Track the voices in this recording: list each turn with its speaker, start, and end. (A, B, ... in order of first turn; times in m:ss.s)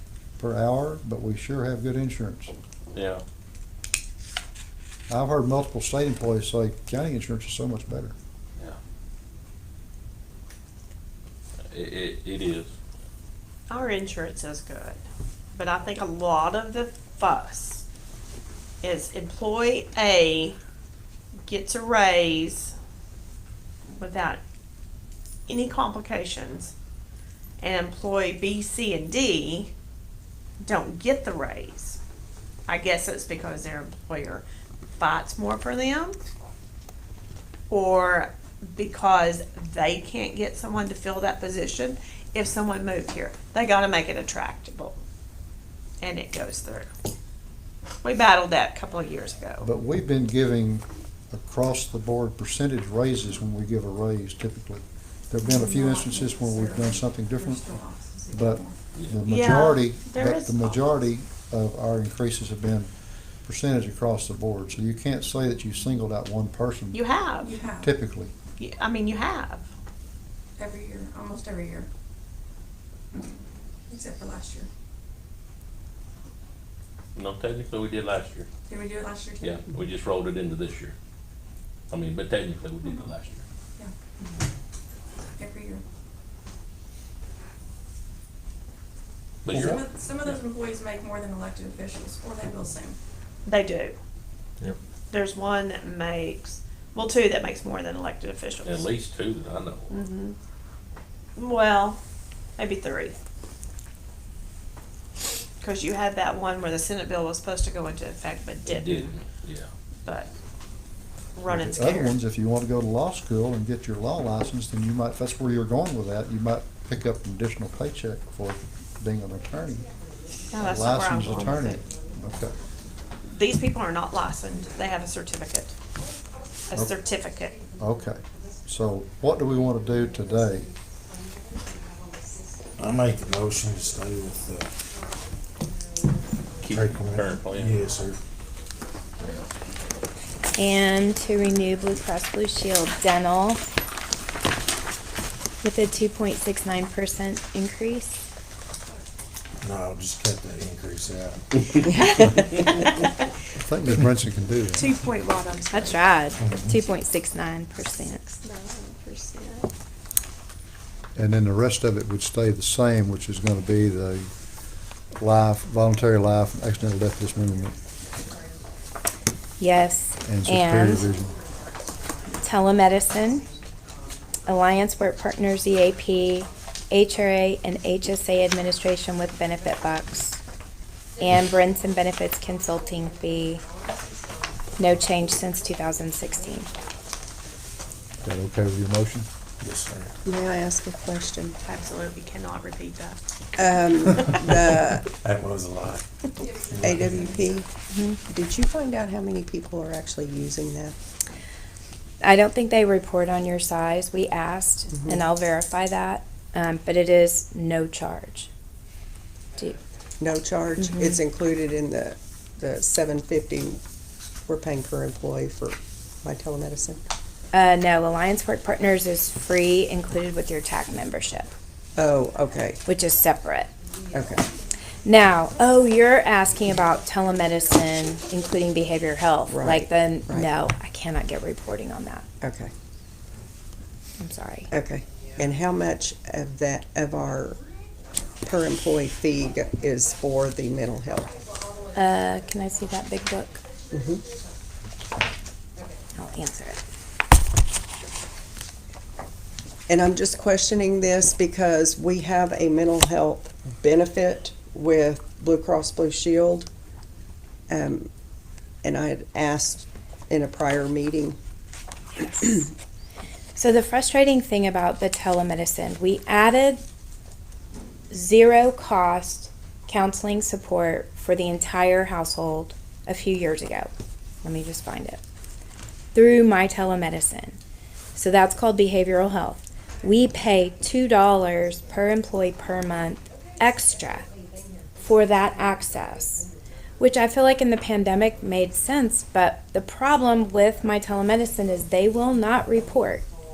0:00.4-0:02.5 A
0:02.9-0:03.2 B
0:05.1-0:08.1 A
0:11.7-0:12.7 B
0:13.7-0:15.0 C
0:15.5-0:17.8 C
0:18.8-0:20.6 C
0:21.4-0:22.7 C
0:24.0-0:24.4 C
0:25.5-0:26.7 C
0:27.6-0:29.7 C
0:30.6-0:32.0 C
0:32.7-0:34.4 C
0:35.0-0:36.2 C
0:37.7-0:45.0 C
0:46.0-0:46.9 C
0:48.0-0:49.7 C
0:49.6-0:57.7 A
0:55.4-0:58.8 D
0:58.3-1:02.9 A
0:59.3-1:00.8 C
1:03.4-1:07.0 A
1:06.9-1:07.6 C
1:07.4-1:07.9 D
1:07.8-1:08.3 A
1:08.6-1:09.7 C
1:10.6-1:11.9 D
1:13.9-1:14.7 D
1:17.2-1:18.5 B
1:18.7-1:19.7 D
1:19.4-1:20.9 B
1:21.9-1:23.4 B
1:25.3-1:25.8 D
1:29.4-1:30.4 B
1:29.5-1:33.0 D
1:33.4-1:34.0 C
1:35.1-1:38.9 C
1:38.6-1:40.0 B
1:39.9-1:40.4 C
1:41.4-1:42.0 C
1:42.6-1:43.2 C
1:45.6-1:49.1 C
1:48.6-1:49.7 B
1:51.4-1:52.2 C
1:51.5-1:59.9 A
2:00.5-2:01.8 C
2:00.5-2:02.5 A
2:03.3-2:05.7 C
2:06.7-2:07.6 C
2:07.8-2:10.7 A
2:12.8-2:14.7 E
2:16.6-2:17.8 B
2:16.6-2:18.2 E
2:20.6-2:23.6 F
2:25.6-2:28.2 F
2:29.6-2:32.4 E
2:33.6-2:34.9 A
2:34.8-2:36.0 C
2:35.7-2:38.4 F
2:36.4-2:36.7 E
2:38.4-2:39.7 C
2:41.1-2:44.3 A
2:45.1-2:47.7 A
2:49.6-2:51.1 F
2:50.2-2:51.4 A
2:52.3-2:53.4 F
2:54.4-3:00.4 F
3:01.2-3:03.6 F
3:04.8-3:06.7 F
3:08.2-3:09.3 A
3:09.6-3:10.1 E
3:10.2-3:11.6 G
3:11.6-3:13.2 C
3:13.6-3:15.1 G
3:15.1-3:17.6 E
3:16.8-3:17.7 G
3:17.9-3:18.2 F
3:18.2-3:21.0 G
3:22.2-3:28.5 F
3:24.9-3:25.2 G
3:30.2-3:33.8 G
3:30.8-3:31.2 F
3:34.4-3:37.0 G
3:37.5-3:41.5 F
3:42.0-3:42.8 G
3:42.8-3:43.7 F
3:44.1-3:44.5 G
3:45.0-3:52.2 F
3:49.5-3:50.5 G
3:52.4-3:52.7 G
3:54.2-3:54.7 F
3:54.7-3:57.6 G
3:58.4-4:01.3 G
4:01.9-4:03.6 F
4:03.9-4:04.2 G
4:06.1-4:06.8 F
4:09.9-4:16.7 G
4:17.7-4:18.1 G
4:18.8-4:21.4 G
4:22.1-4:22.7 F
4:23.5-4:26.8 F
4:28.1-4:33.9 F
4:34.4-4:35.2 F
4:36.1-4:37.6 F
4:38.1-4:44.2 F
4:45.0-4:46.5 F
4:47.0-4:53.2 F